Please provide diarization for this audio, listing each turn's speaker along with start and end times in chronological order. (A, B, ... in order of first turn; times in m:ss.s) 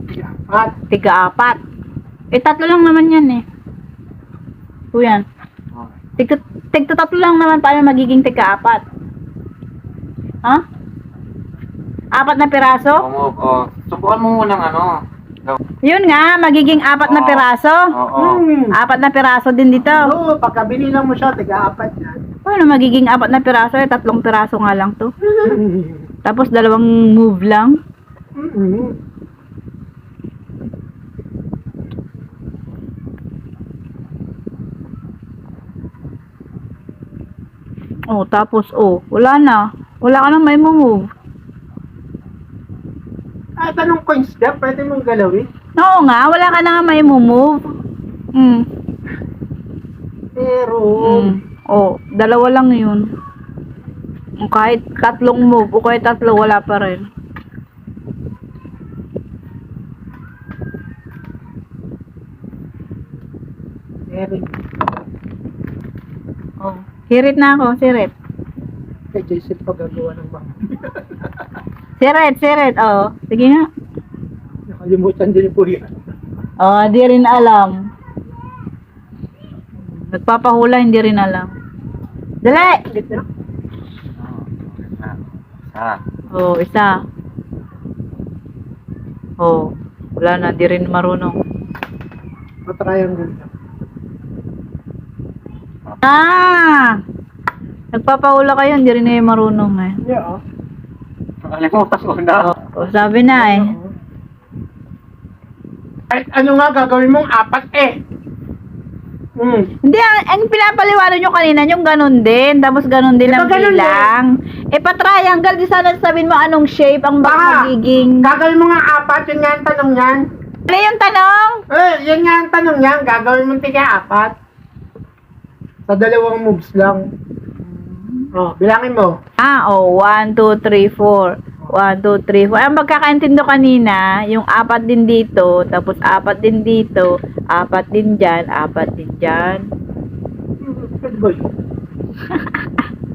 0:00.1-0:00.8 A
0:00.9-0:01.6 B
0:02.3-0:03.4 B
0:04.9-0:05.2 B
0:06.2-0:08.8 B
0:12.2-0:13.0 B
0:13.0-0:15.6 C
0:15.8-0:17.9 B
0:17.0-0:18.4 C
0:18.2-0:18.7 A
0:18.8-0:20.1 B
0:19.8-0:22.2 A
0:22.5-0:25.1 B
0:25.4-0:26.0 A
0:26.2-0:27.8 B
0:28.4-0:29.0 A
0:38.1-0:41.1 B
0:43.6-0:45.5 A
0:45.8-0:47.7 B
0:48.4-0:48.6 B
0:50.4-0:51.3 A
0:51.0-0:53.1 B
0:54.4-0:57.1 B
1:04.1-1:04.6 A
1:06.6-1:08.1 B
1:09.1-1:11.0 A
1:12.0-1:13.7 B
1:14.7-1:15.9 A
1:16.6-1:17.8 B
1:19.9-1:21.5 B
1:22.4-1:22.9 B
1:22.5-1:23.2 A
1:24.2-1:25.2 C
1:25.7-1:26.0 C
1:26.3-1:26.9 B
1:29.4-1:31.4 B
1:32.7-1:33.5 A
1:36.0-1:37.0 B
1:37.9-1:40.0 B
1:40.0-1:40.4 A
1:41.4-1:42.6 C
1:42.4-1:43.7 B
1:43.3-1:43.9 A
1:46.1-1:47.9 A
1:49.4-1:49.7 A
1:49.8-1:58.3 B
1:53.3-1:54.1 A
1:57.2-2:00.2 A
2:00.7-2:01.6 B
2:01.7-2:04.3 A
2:05.9-2:07.0 A
2:07.6-2:08.3 B
2:08.4-2:09.1 A
2:09.4-2:19.6 B
2:20.6-2:21.4 A
2:22.3-2:22.6 B